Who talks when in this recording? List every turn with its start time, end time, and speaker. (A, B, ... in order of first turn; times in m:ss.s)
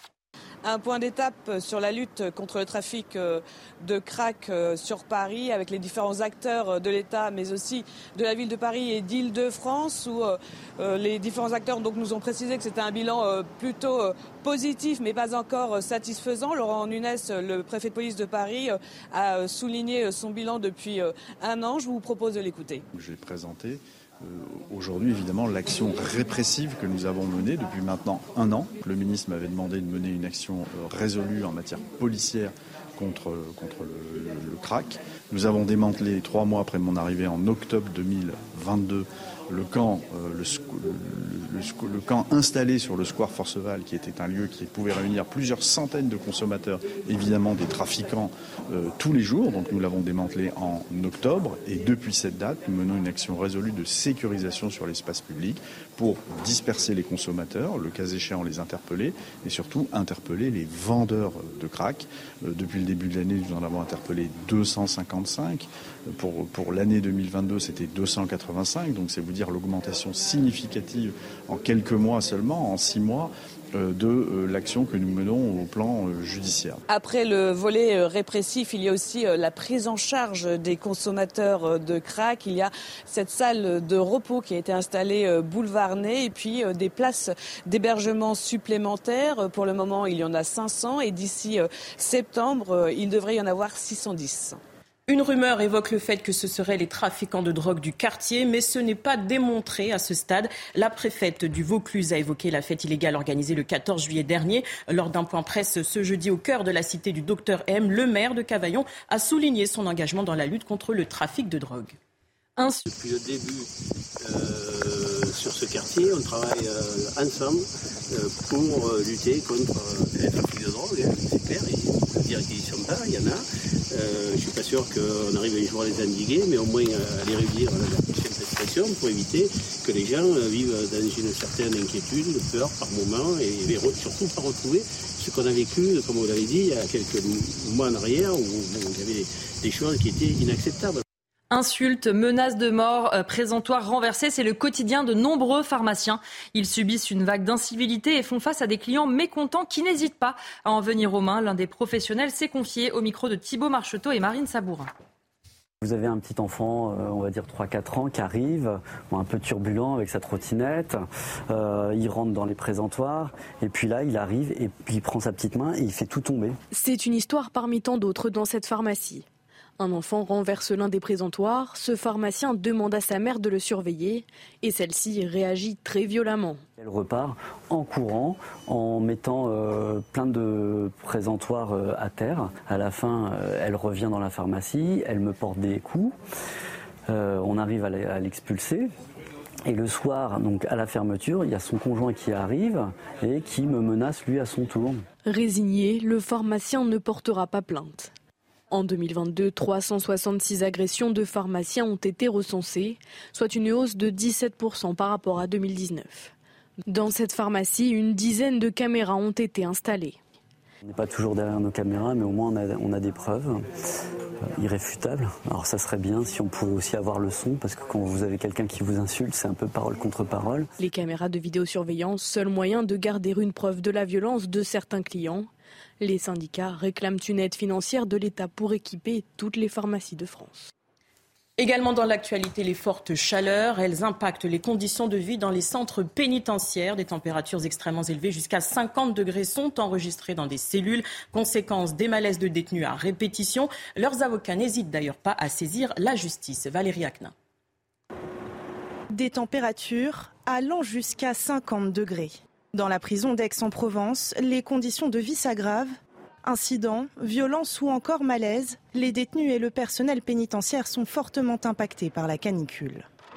0:00.6-0:22.8 A
0:22.9-1:16.8 B
1:16.9-1:34.6 A
1:35.1-1:52.0 C
1:52.6-1:52.9 D
1:52.9-2:21.0 E
2:21.5-2:34.9 D
2:35.8-2:46.6 F
2:46.7-2:49.3 G
2:49.8-2:56.6 G
2:56.8-3:06.2 F
3:07.1-3:08.9 F
3:09.7-3:15.0 F
3:15.3-3:18.1 G
3:18.7-3:26.3 G
3:26.9-3:30.2 G
3:30.8-3:33.7 F
3:34.6-3:40.7 F
3:40.8-3:45.5 G
3:46.0-3:50.7 G
3:51.6-4:07.3 C
4:09.1-4:23.1 H